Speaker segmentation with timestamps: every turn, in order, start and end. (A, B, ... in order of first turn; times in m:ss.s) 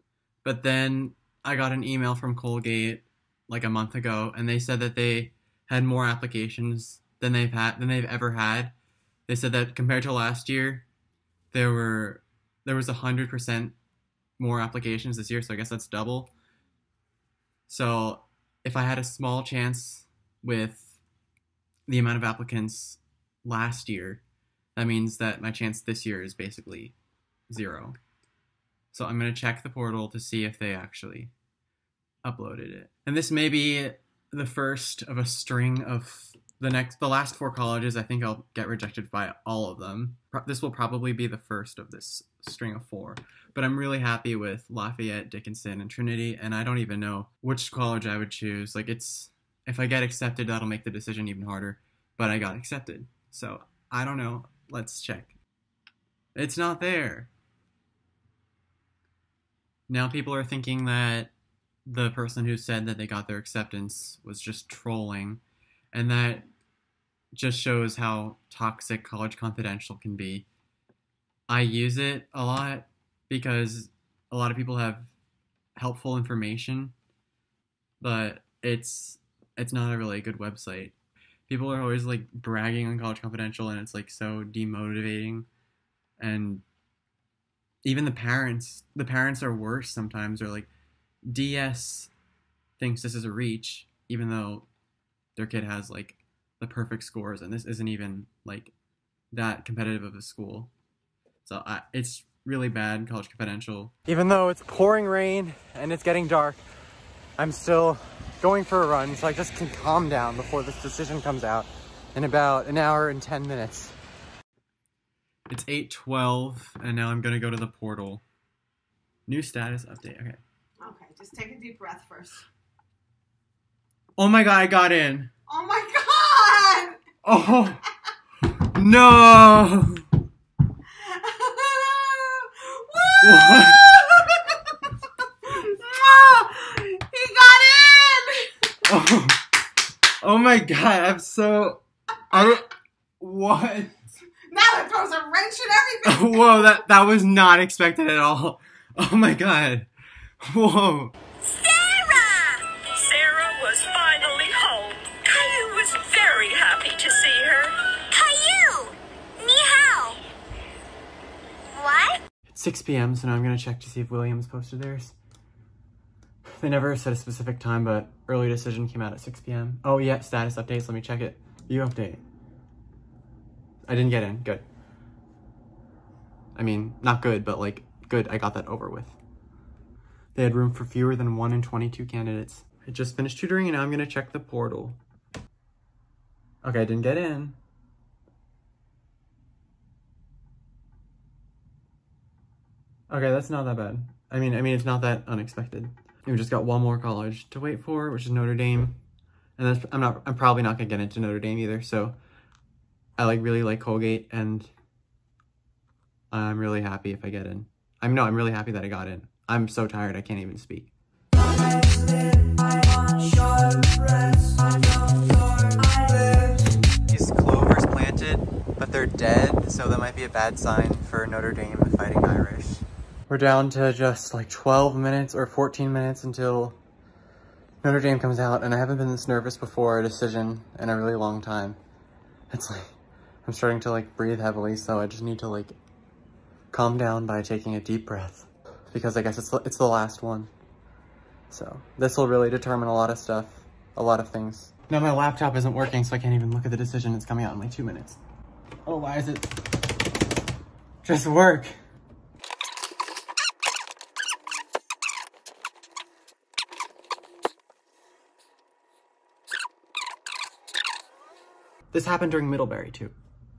0:00.4-0:08.7 A
0:09.3-0:10.9 A
0:11.5-0:13.8 A
0:14.4-0:16.3 A
0:17.7-0:21.0 A
0:21.9-0:24.2 A
0:24.8-0:27.0 A
0:27.5-0:28.0 A
0:28.9-0:31.3 A
0:32.2-0:55.4 A
0:56.4-0:57.3 A
0:59.9-1:01.3 A
1:01.9-1:05.4 A
1:05.9-1:06.5 A
1:07.3-1:10.5 A
1:11.5-1:15.1 A
1:15.8-1:17.0 A
1:18.0-1:21.0 A
1:21.5-1:25.5 A
1:26.2-1:26.6 A
1:27.8-1:30.7 A
1:31.3-1:32.1 A
1:32.8-1:34.7 A
1:35.4-1:38.7 A
1:39.3-1:40.7 A
1:41.4-1:46.6 A
1:47.4-1:54.0 A
1:55.5-1:58.2 A
1:59.3-2:00.4 A
2:00.8-2:02.5 B
2:04.2-2:05.3 A
2:05.5-2:07.0 B
2:07.2-2:07.8 A
2:08.5-2:10.1 A
2:11.0-2:14.6 B
2:13.2-2:14.0 A
2:15.4-2:18.5 B
2:18.8-2:19.4 A
2:20.2-2:24.0 A
2:24.5-2:26.6 B
2:26.0-2:29.9 A
2:30.4-2:31.2 A
2:31.6-2:32.6 C
2:32.8-2:37.8 D
2:38.1-2:40.2 C
2:41.8-2:42.2 C
2:42.5-2:45.2 A
2:46.6-2:52.2 A
2:53.9-2:54.6 A
2:56.6-2:59.2 A
3:00.4-3:05.0 A
3:06.6-3:07.6 A
3:13.1-3:19.0 A
3:19.6-3:22.2 A
3:23.2-3:24.7 A
3:26.3-3:30.9 A
3:31.8-3:46.8 A
3:47.8-3:51.8 A
3:52.5-3:55.8 A
3:56.7-4:00.5 A
4:01.5-4:08.2 A
4:08.9-4:09.6 A
4:11.0-4:11.8 A
4:21.9-4:23.1 A